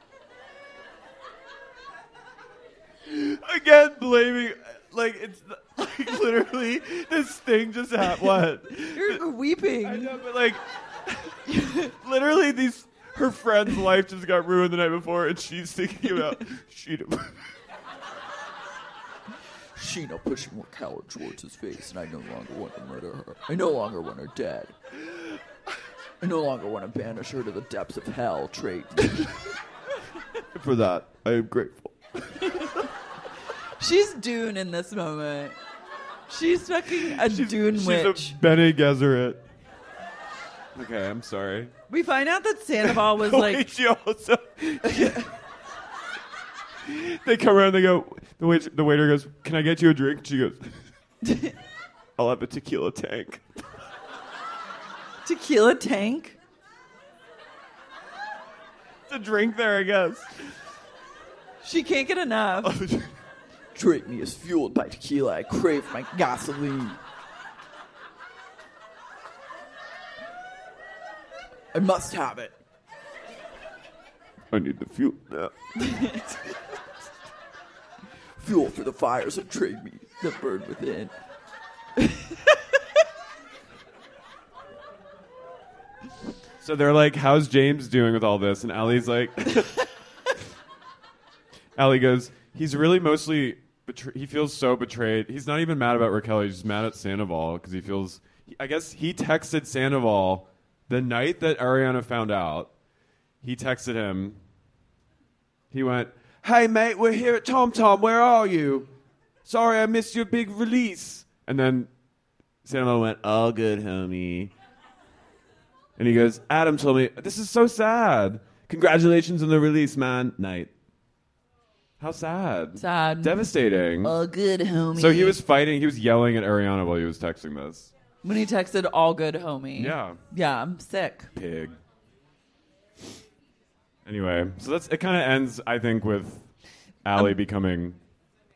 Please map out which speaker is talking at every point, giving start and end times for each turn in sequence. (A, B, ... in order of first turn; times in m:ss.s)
0:03.1-0:09.2 A
0:08.9-0:10.1 B
0:09.8-0:17.4 A
0:16.0-0:16.3 B
0:19.7-0:24.7 C
0:26.2-0:29.2 C
0:30.5-0:32.6 A
0:33.8-0:35.6 B
0:36.3-0:38.4 B
0:37.0-0:39.4 A
0:40.7-0:41.7 A
0:41.9-0:43.6 B
0:42.8-0:45.2 A
0:44.8-0:45.2 B
0:46.8-0:50.8 A
0:52.2-0:53.4 A
0:55.2-0:56.4 B
0:59.1-1:00.3 A
1:01.6-1:02.7 B
1:02.6-1:03.1 A
1:03.7-1:07.0 C
1:11.7-1:12.6 C
1:14.5-1:16.2 A
1:18.4-1:21.1 C
1:26.6-1:29.8 A
1:31.8-1:42.7 A
1:43.4-1:44.4 A
1:45.7-1:48.9 A
1:49.4-1:51.9 A
1:52.6-1:54.5 A
1:56.0-2:00.7 A
2:02.0-2:04.2 A
2:02.8-2:03.4 B
2:04.0-2:05.4 B
2:05.0-2:07.9 A
2:08.2-2:11.3 B
2:09.8-2:10.2 A
2:11.3-2:11.8 A
2:14.0-2:16.4 A
2:17.0-2:18.0 A